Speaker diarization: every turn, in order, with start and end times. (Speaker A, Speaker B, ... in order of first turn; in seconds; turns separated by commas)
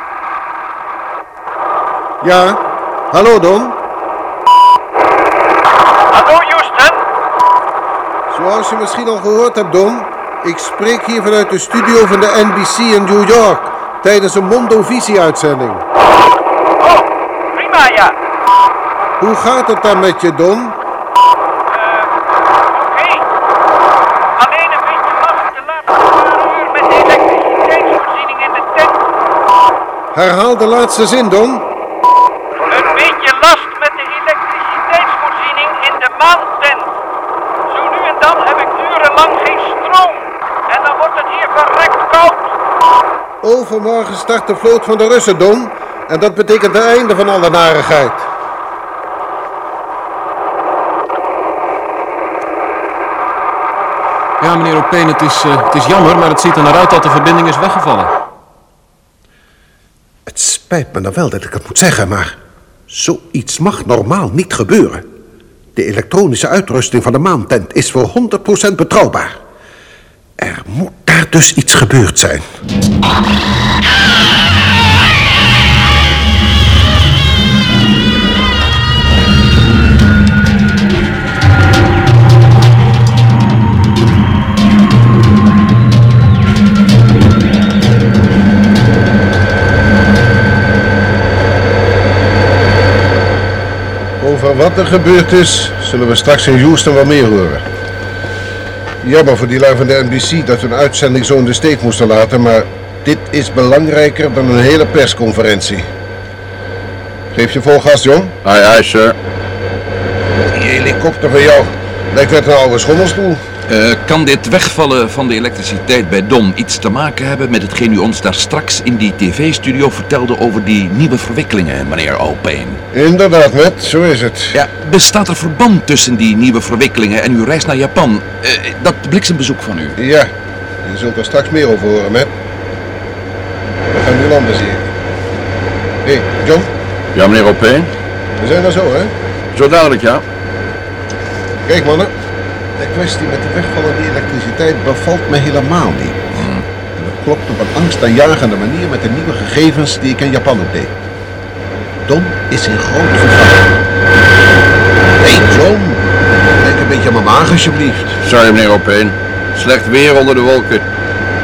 Speaker A: 2.2-2.6, Speaker A: 3.1-3.8, Speaker B: 6.1-7.0, Speaker A: 8.3-15.8, Speaker B: 16.8-18.1, Speaker A: 19.2-20.8, Speaker B: 21.7-23.3, Speaker B: 24.4-29.0, Speaker A: 30.1-31.7, Speaker B: 32.6-36.9, Speaker B: 37.7-42.5, Speaker A: 43.4-48.3, Speaker C: 54.4-58.1, Speaker A: 60.2-62.4, Speaker A: 62.9-65.1, Speaker A: 65.7-69.4, Speaker A: 70.4-72.4, Speaker A: 94.2-97.6, Speaker A: 99.0-105.9, Speaker A: 107.3-108.4, Speaker D: 108.4-109.2, Speaker A: 110.5-113.4, Speaker D: 113.7-122.8, Speaker A: 122.9-124.6, Speaker D: 124.5-130.0, Speaker A: 130.0-132.3, Speaker A: 133.9-134.9, Speaker A: 136.0-136.7, Speaker D: 137.1-137.9, Speaker A: 138.4-139.1, Speaker D: 139.5-140.2, Speaker A: 141.7-142.1, Speaker A: 142.8-146.3, Speaker D: 146.3-146.6, Speaker A: 146.9-151.0, Speaker A: 152.1-153.7, Speaker A: 155.2-156.0, Speaker A: 156.6-158.2, Speaker D: 158.2-160.8